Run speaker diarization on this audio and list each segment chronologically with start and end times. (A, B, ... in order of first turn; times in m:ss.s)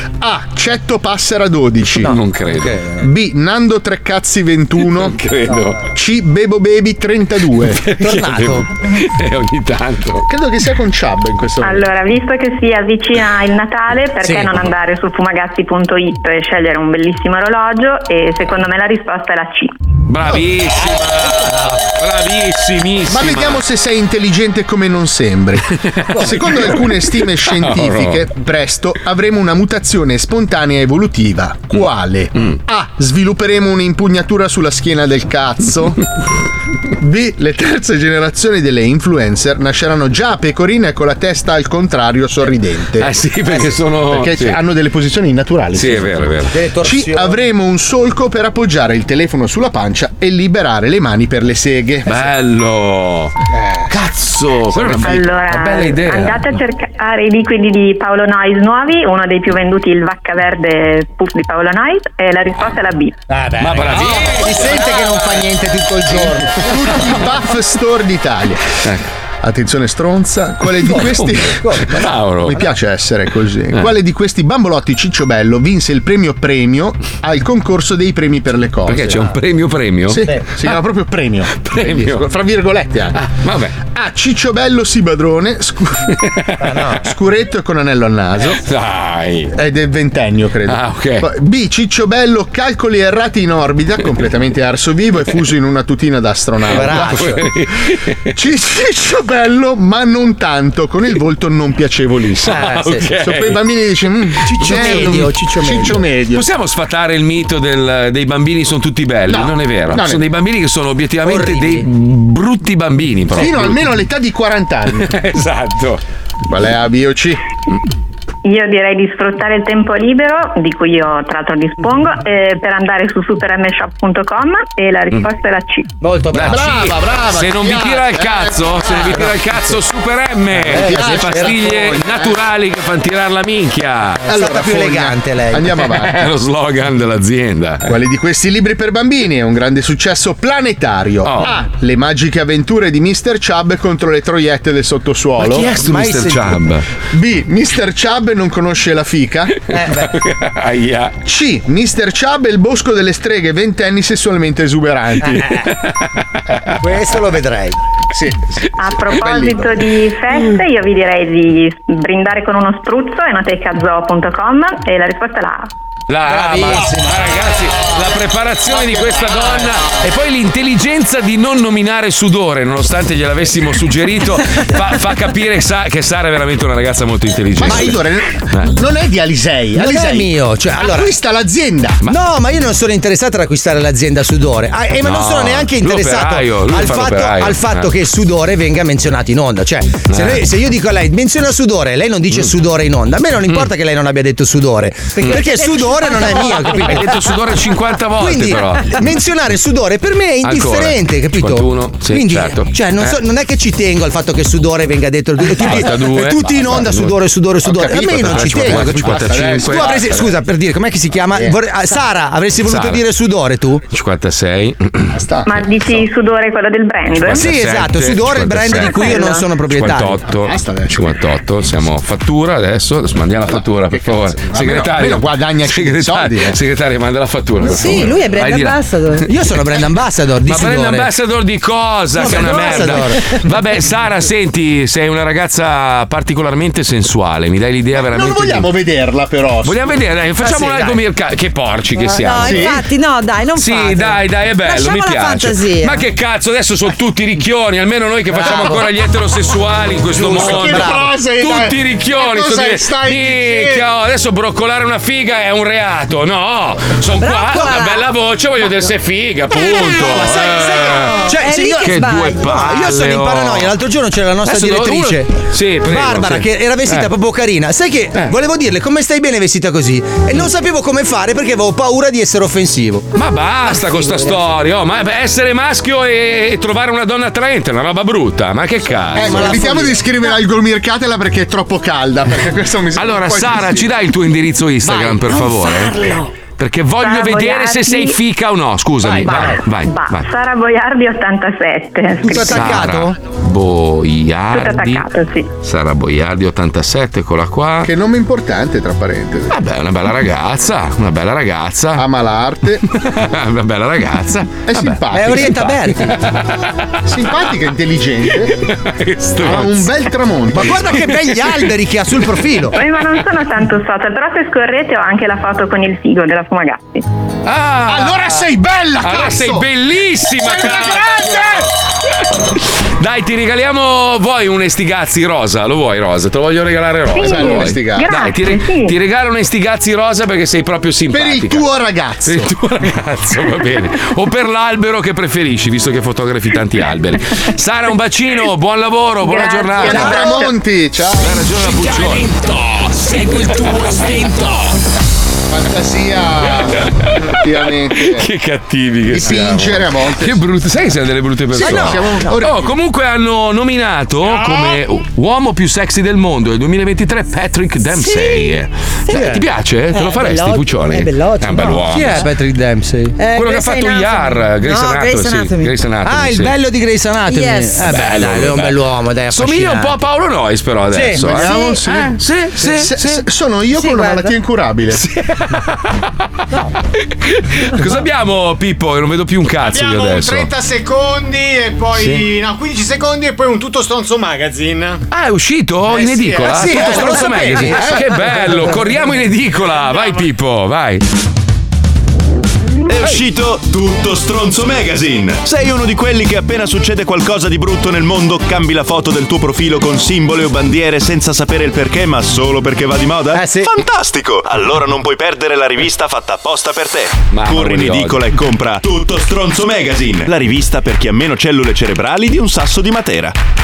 0:00.2-0:02.2 A
0:02.0-0:02.8 B
0:02.5-0:03.1 C
0:03.0-0:05.2 A
0:04.8-0:05.9 B
0:05.9-0:07.8 A
0:07.8-0:10.3 B
0:08.0-0:08.7 C
0:10.3-0:11.9 A
0:11.6-0:19.7 D
0:14.2-0:14.5 C
0:20.1-0:23.6 B
0:23.1-0:36.0 A
0:25.9-0:26.9 B
0:27.4-0:28.2 B
0:37.0-0:43.1 A
0:43.0-0:44.6 B
0:44.1-0:46.3 A
0:45.7-0:46.5 B
0:46.5-0:47.4 C
0:46.8-0:52.3 A
0:52.1-0:53.3 B
0:53.9-0:56.6 B
0:54.7-0:55.2 A
0:55.0-1:03.2 D
1:03.3-1:06.9 C
1:03.6-1:04.8 B
1:06.1-1:08.7 A
1:09.4-1:19.3 A
1:10.8-1:12.1 C
1:11.8-1:12.6 B
1:18.8-1:20.2 B
1:20.1-1:23.2 A
1:21.6-1:22.3 B
1:23.1-1:23.8 B
1:23.8-1:26.2 A
1:26.2-1:26.9 B
1:26.6-1:27.0 C
1:27.0-1:28.6 A
1:28.4-1:29.5 B
1:29.5-1:37.2 A
1:30.6-1:31.3 B
1:36.7-1:37.4 C
1:36.7-1:38.3 B
1:38.3-1:46.4 A
1:42.4-1:43.6 B
1:42.4-1:43.1 C
1:44.4-1:46.0 C
1:44.5-1:45.1 B
1:46.3-1:53.8 B
1:49.3-1:50.2 A
1:51.2-1:51.9 C
1:53.3-1:55.1 A
1:55.0-1:56.0 B
1:56.4-1:57.4 A
1:58.4-2:05.9 D
2:06.0-2:06.7 C
2:06.3-2:14.2 B
2:06.4-2:09.4 A
2:10.6-2:11.8 C
2:10.7-2:12.3 A
2:14.2-2:15.7 C
2:14.3-2:16.3 A
2:15.8-2:17.9 B
2:17.8-2:25.7 A
2:21.2-2:21.5 B
2:25.4-2:26.8 B
2:25.5-2:26.6 C
2:27.1-2:29.6 A
2:29.7-2:30.2 C
2:29.9-2:31.2 B
2:31.2-2:35.6 A
2:35.2-2:35.6 C
2:35.3-2:36.8 B
2:36.8-2:37.8 C
2:38.1-2:39.9 A
2:38.8-2:45.7 D
2:46.1-2:58.0 B
2:46.3-2:47.1 C
2:57.6-3:02.0 A
2:59.7-3:01.1 C
3:02.0-3:17.1 C
3:05.0-3:07.9 B
3:10.1-3:10.4 B
3:15.2-3:15.4 B
3:15.2-3:16.8 E
3:16.4-3:19.1 B
3:18.2-3:33.8 C
3:20.4-3:23.2 B
3:25.5-3:27.2 B
3:27.6-3:30.3 A
3:28.0-3:30.1 B
3:32.6-3:33.0 B
3:33.9-3:35.1 B
3:35.1-3:36.0 A
3:35.5-3:37.4 D
3:37.2-3:48.8 B
3:37.2-3:40.2 C
3:38.9-3:39.4 D
3:40.4-3:41.0 A
3:43.5-3:46.6 A
3:47.6-3:49.2 E
3:47.7-3:48.1 A
3:49.2-3:51.1 C
3:50.4-3:58.7 B
3:52.1-3:53.2 C
3:52.2-3:52.9 E
3:57.9-3:59.9 A
3:59.6-4:02.8 B
4:00.4-4:00.9 C
4:02.0-4:06.0 E
4:02.4-4:02.8 A
4:03.6-4:21.3 B
4:08.4-4:08.8 C
4:10.2-4:11.1 C
4:10.3-4:11.6 A
4:10.9-4:13.8 F
4:17.2-4:18.0 E
4:19.9-4:25.3 C
4:20.0-4:22.4 E
4:21.8-4:23.7 B
4:24.4-4:27.1 B
4:25.8-4:33.1 C
4:33.1-4:39.6 B
4:33.9-4:34.2 C
4:39.1-4:40.1 C
4:39.2-4:43.9 A
4:43.0-4:50.3 B
4:44.9-4:45.2 C
4:47.0-4:48.2 D
4:49.1-4:52.6 D
4:49.3-4:49.5 C
4:52.2-4:53.2 C
4:52.3-4:55.1 B
4:54.5-4:55.5 D
4:55.6-4:57.9 B
4:57.8-4:59.5 A
4:59.5-5:02.0 B
5:02.0-5:02.8 A
5:02.9-5:06.7 B
5:04.7-5:05.7 A
5:05.1-5:06.2 C
5:07.0-5:08.6 A
5:08.4-5:09.9 B
5:09.4-5:11.0 A
5:10.5-5:12.8 C
5:10.6-5:11.7 B
5:12.7-5:17.0 D
5:17.4-5:18.5 B
5:17.9-5:19.6 A
5:19.0-5:21.7 B
5:20.4-5:21.7 A
5:23.0-5:31.6 B
5:27.1-5:29.0 D
5:27.2-5:28.1 A
5:31.1-5:32.5 A
5:32.2-5:40.5 B
5:39.2-5:40.3 D
5:39.8-5:41.4 A
5:41.2-5:42.3 B
5:41.7-5:44.6 G
5:45.5-5:48.3 A
5:47.0-5:47.4 B
5:47.9-6:02.3 B
5:49.1-5:50.4 A
5:51.5-5:52.7 A
5:51.6-5:52.4 C
5:58.0-5:58.5 E
5:59.1-5:59.4 C
5:59.9-6:02.2 E
6:01.5-6:03.2 C
6:03.2-6:05.7 E
6:03.3-6:06.6 B
6:06.0-6:09.9 C
6:07.3-6:07.9 E
6:07.8-6:08.8 B
6:09.3-6:13.2 B
6:10.9-6:11.6 C
6:11.2-6:15.0 A
6:13.8-6:14.3 E
6:14.9-6:15.9 B
6:17.2-6:20.5 B
6:19.6-6:25.0 F
6:22.0-6:22.3 B
6:25.1-6:31.0 B
6:25.8-6:26.9 F
6:26.5-6:28.0 C
6:27.9-6:28.4 A
6:29.6-6:30.2 F
6:32.9-6:53.4 H
6:43.3-6:43.7 C
6:47.3-6:48.3 B